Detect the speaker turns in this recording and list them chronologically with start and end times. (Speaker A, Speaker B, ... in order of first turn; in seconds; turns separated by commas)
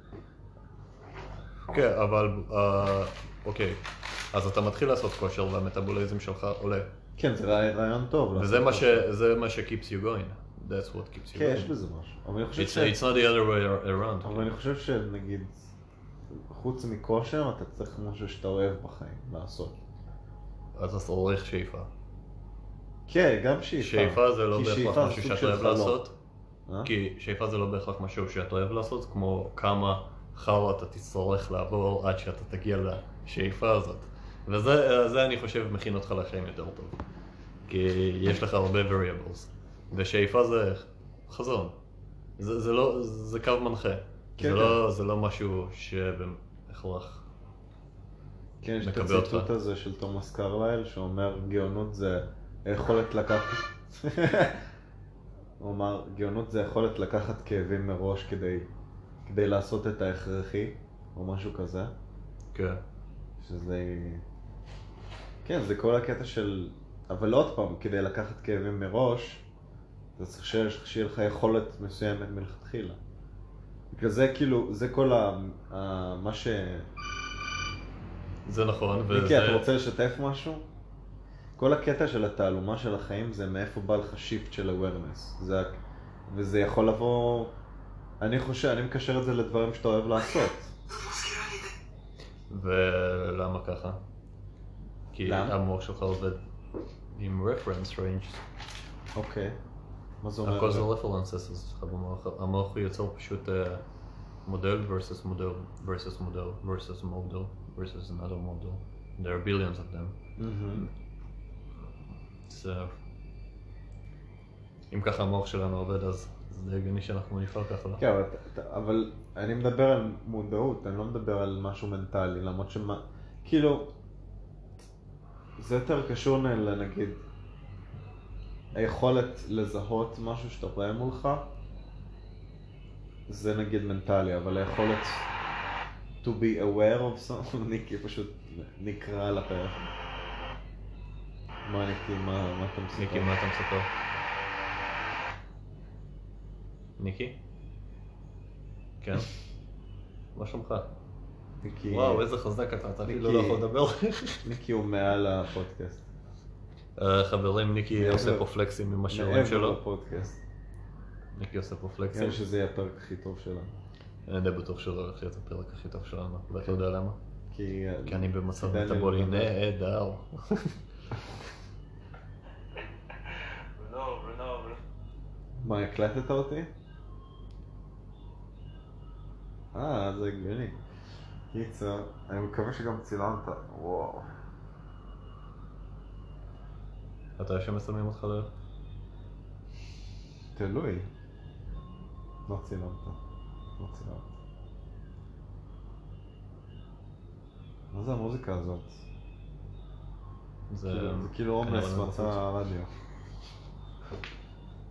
Speaker A: 1.7-6.9, Speaker B: 7.2-9.1, Speaker A: 8.4-11.7, Speaker B: 11.3-13.0, Speaker A: 12.5-14.6, Speaker B: 14.2-15.7, Speaker B: 16.3-19.8, Speaker A: 20.7-21.9, Speaker B: 23.1-26.0, Speaker A: 23.8-26.1, Speaker B: 26.7-26.9, Speaker A: 26.8-37.0, Speaker A: 37.6-41.8, Speaker A: 42.4-47.2, Speaker B: 44.4-44.8, Speaker B: 48.6-54.6, Speaker A: 48.8-49.5, Speaker B: 55.6-58.7, Speaker B: 59.2-61.9, Speaker A: 62.5-62.8, Speaker B: 63.4-64.2, Speaker B: 65.4-69.5, Speaker B: 70.2-73.0, Speaker B: 73.9-76.9, Speaker A: 78.5-79.7, Speaker B: 79.1-80.7, Speaker B: 81.6-87.5, Speaker B: 88.2-90.7, Speaker A: 92.5-94.0, Speaker A: 95.1-96.4, Speaker B: 95.2-95.5, Speaker A: 97.1-98.4, Speaker B: 99.1-99.6, Speaker B: 100.2-100.9, Speaker A: 100.4-103.8, Speaker A: 104.4-110.2, Speaker B: 110.4-110.9, Speaker A: 112.5-113.0, Speaker A: 114.9-118.0, Speaker B: 118.0-123.9, Speaker B: 125.6-127.2, Speaker B: 128.7-131.5, Speaker B: 133.3-135.2, Speaker B: 136.2-139.9, Speaker B: 141.6-143.3, Speaker A: 142.9-143.9, Speaker A: 147.0-147.4, Speaker A: 149.0-149.3, Speaker A: 150.3-150.9, Speaker B: 151.6-152.3, Speaker A: 151.9-154.4, Speaker B: 153.0-153.6, Speaker B: 154.4-156.1, Speaker A: 157.0-159.8, Speaker B: 157.9-158.4, Speaker B: 159.1-160.4, Speaker A: 161.3-162.4, Speaker B: 162.1-163.8, Speaker A: 164.2-167.2, Speaker B: 167.5-169.5, Speaker A: 168.1-170.8, Speaker B: 175.6-176.7, Speaker B: 179.7-180.8, Speaker B: 181.5-184.3, Speaker A: 187.4-188.5, Speaker B: 190.5-191.1, Speaker B: 192.5-193.2, Speaker B: 193.8-194.3, Speaker B: 197.9-199.0, Speaker A: 200.7-202.4, Speaker B: 200.8-202.9